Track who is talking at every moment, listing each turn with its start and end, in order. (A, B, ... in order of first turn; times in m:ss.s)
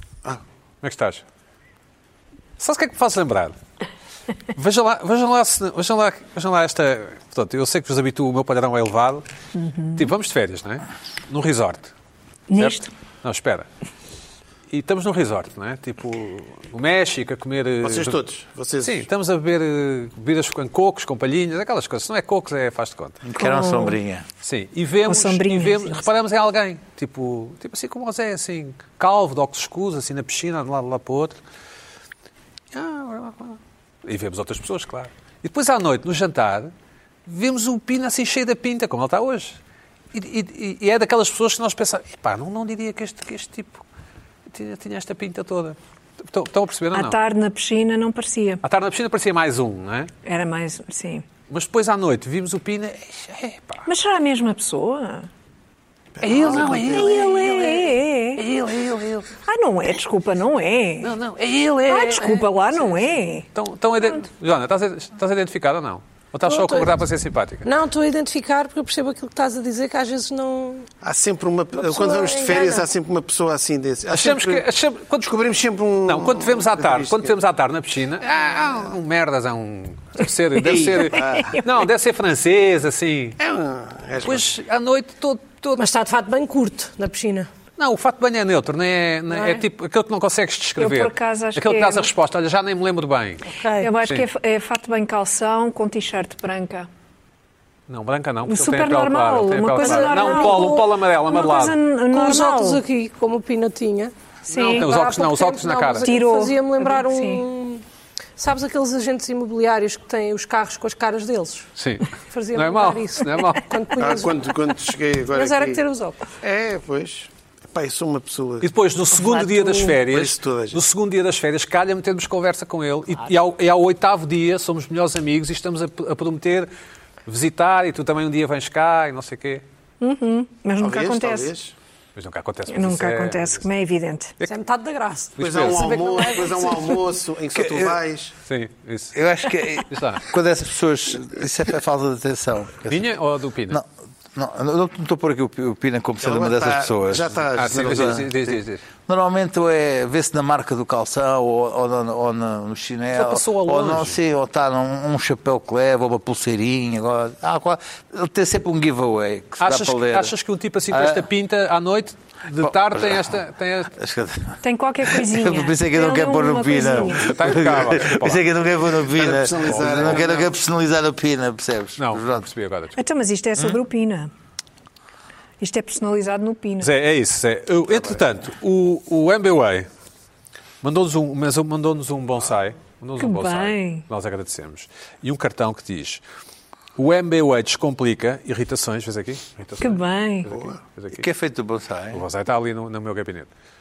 0:00.8-0:01.2 A
0:02.6-0:03.6 A
0:04.5-0:09.2 A
0:09.6-0:10.0 B
0:09.9-0:11.9 A
0:12.5-0:12.9 B
0:12.6-0:13.7 A
0:14.7-0:18.2 A
0:17.8-0:19.0 C
0:18.8-0:23.2 A
0:23.2-0:24.2 D
0:23.4-0:24.0 B
0:24.4-0:31.4 A
0:25.0-0:26.0 B
0:32.7-0:36.7 A
0:37.2-0:39.6 A
0:40.1-0:43.8 A
0:44.5-0:47.2 A
0:46.9-0:48.6 B
0:48.6-0:50.1 A
0:50.2-0:51.2 B
0:51.5-0:53.9 A
0:53.8-0:55.3 B
0:56.2-0:57.2 C
0:56.2-0:59.3 A
0:56.5-0:58.4 B
0:59.4-1:01.1 B
1:01.0-1:02.4 A
1:01.9-1:03.5 B
1:03.5-1:07.6 A
1:06.5-1:07.0 E
1:07.6-1:10.9 E
1:11.0-1:14.6 C
1:11.8-1:12.9 E
1:14.1-1:15.3 A
1:15.2-1:17.4 C
1:16.0-1:23.4 A
1:18.2-1:18.8 C
1:20.6-1:21.6 C
1:21.1-1:21.6 B
1:23.4-1:24.5 C
1:24.2-1:25.8 A
1:25.8-1:27.5 E
1:27.8-1:34.2 A
1:29.3-1:29.6 E
1:30.8-1:32.1 B
1:33.5-1:33.9 E
1:33.8-1:36.9 B
1:37.9-1:41.8 A
1:38.4-1:42.8 B
1:39.8-1:40.9 E
1:42.1-1:47.8 E
1:44.5-1:44.9 B
1:44.6-1:46.1 A
1:46.0-1:47.4 B
1:48.4-1:51.7 E
1:51.8-1:53.6 A
1:52.3-1:54.5 E
1:54.0-1:55.8 C
1:55.3-1:56.3 E
1:56.4-1:58.7 C
1:58.6-2:06.7 A
1:59.5-2:00.8 C
2:07.2-2:09.6 A
2:10.0-2:11.5 B
2:10.8-2:11.7 C
2:12.1-2:13.6 A
2:12.7-2:14.3 B
2:14.4-2:17.0 E
2:15.4-2:16.3 A
2:15.4-2:18.3 C
2:17.5-2:18.0 D
2:18.4-2:19.2 A
2:19.1-2:23.0 D
2:19.9-2:20.2 A
2:22.8-2:23.8 A
2:23.7-2:28.5 D
2:26.2-2:28.3 C
2:27.5-2:28.8 A
2:29.0-2:40.3 D
2:33.1-2:34.2 A
2:39.6-2:43.9 A
2:40.9-2:41.2 D
2:42.6-2:43.3 D
2:43.9-2:52.4 D
2:44.6-2:47.3 B
2:47.1-2:48.4 A
2:49.1-2:50.5 C
2:49.5-2:50.3 A
2:52.0-2:53.0 A
2:53.0-2:54.3 B
2:55.6-2:56.9 B
2:56.8-2:59.9 A
3:00.8-3:06.2 A
3:03.2-3:04.0 B
3:07.0-3:11.2 A
3:09.8-3:10.5 B
3:10.5-3:10.8 C
3:11.1-3:12.2 D
3:12.1-3:13.5 A